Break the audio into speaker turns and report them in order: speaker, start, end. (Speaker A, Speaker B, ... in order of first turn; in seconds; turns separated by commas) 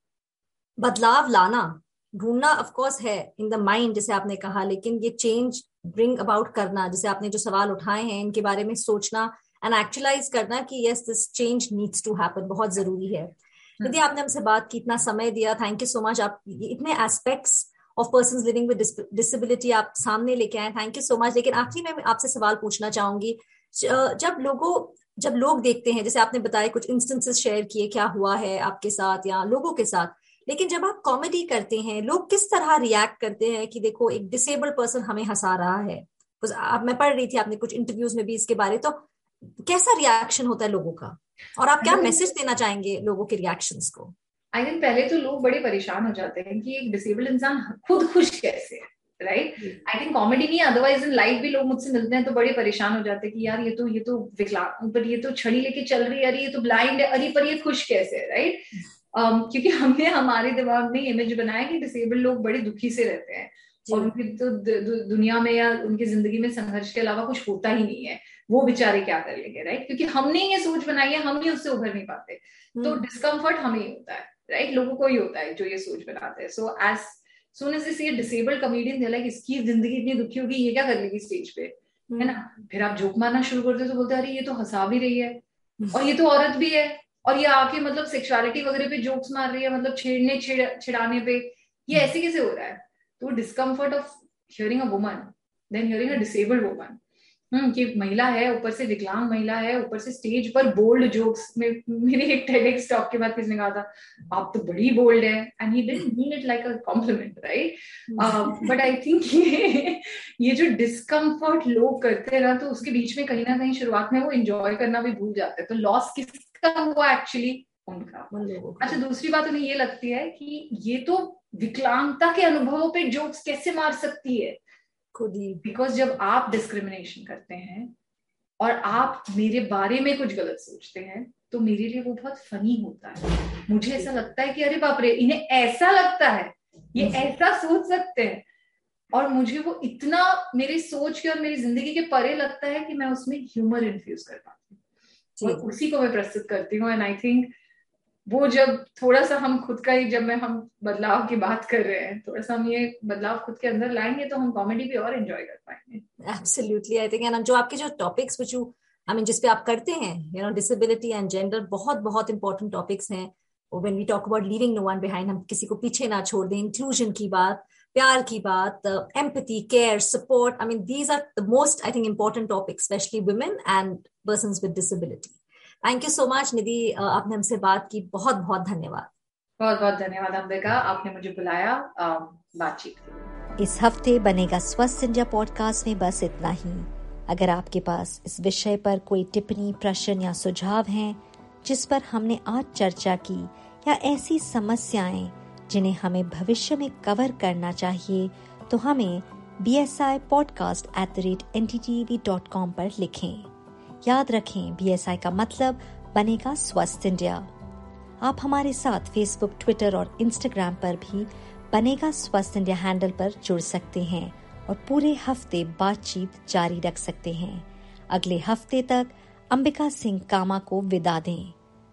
Speaker A: 0.8-44.1, Speaker B: 41.8-42.3, Speaker B: 44.5-85.4, Speaker A: 63.9-64.1, Speaker A: 72.8-73.0, Speaker A: 82.1-82.4, Speaker B: 85.9-97.0, Speaker B: 97.5-124.6, Speaker A: 108.1-108.7, Speaker A: 118.3-119.0, Speaker A: 125.2-125.6, Speaker B: 125.6-127.9, Speaker B: 128.6-138.4, Speaker A: 137.0-137.3, Speaker B: 139.1-144.8, Speaker A: 145.4-145.7, Speaker B: 145.4-147.5, Speaker B: 148.3-156.0, Speaker A: 156.2-179.1, Speaker B: 179.6-183.3, Speaker C: 183.6-203.5, Speaker C: 204.0-207.5, Speaker C: 208.2-221.6